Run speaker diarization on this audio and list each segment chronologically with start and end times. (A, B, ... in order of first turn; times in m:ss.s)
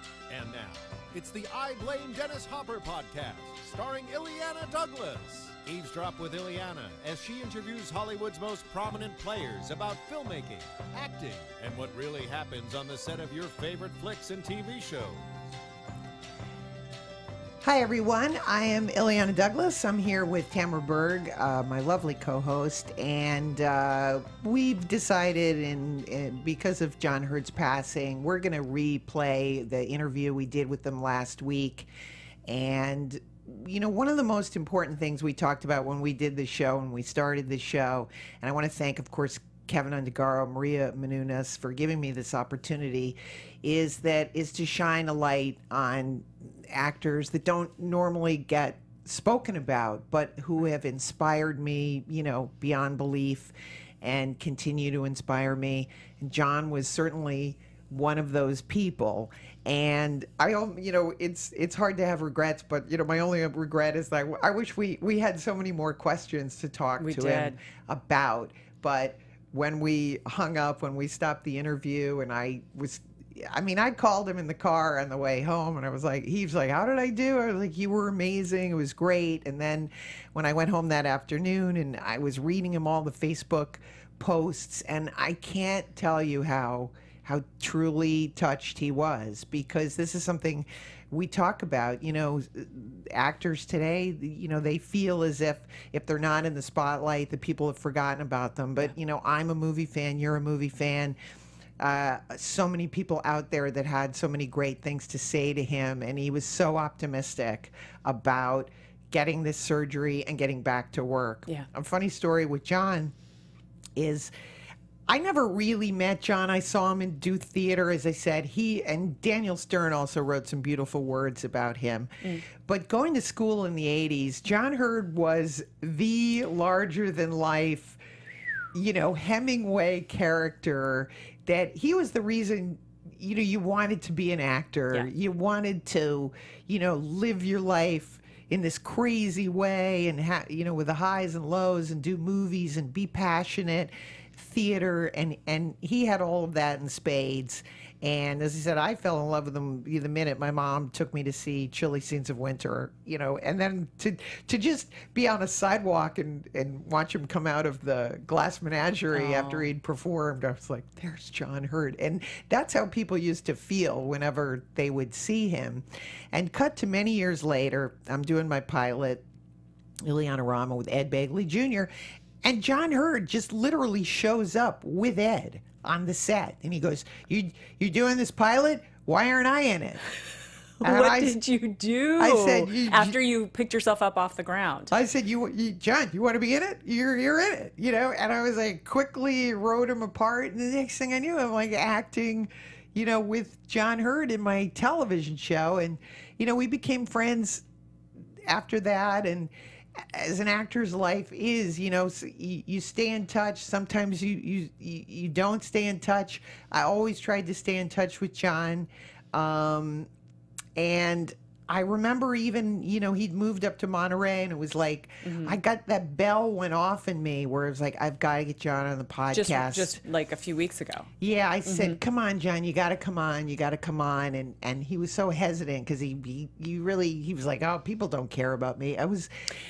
0:00.3-0:15.4 A
0:17.6-0:31.9 B
0:32.5-1:41.2 B
1:07.0-1:07.6 C
1:41.8-1:53.1 B
1:54.0-1:54.3 B
1:55.1-2:08.0 B
2:08.8-2:49.2 B
2:39.1-2:39.7 C
2:50.0-2:51.9 B
2:52.4-3:00.0 B
3:00.8-3:05.0 C
3:00.8-3:01.4 B
3:02.2-3:03.2 B
3:04.9-3:17.6 B
3:18.5-3:30.1 B
3:30.8-3:40.0 B
3:35.2-3:35.6 C
3:39.3-3:41.1 C
3:41.2-3:49.3 B
3:41.6-3:42.0 C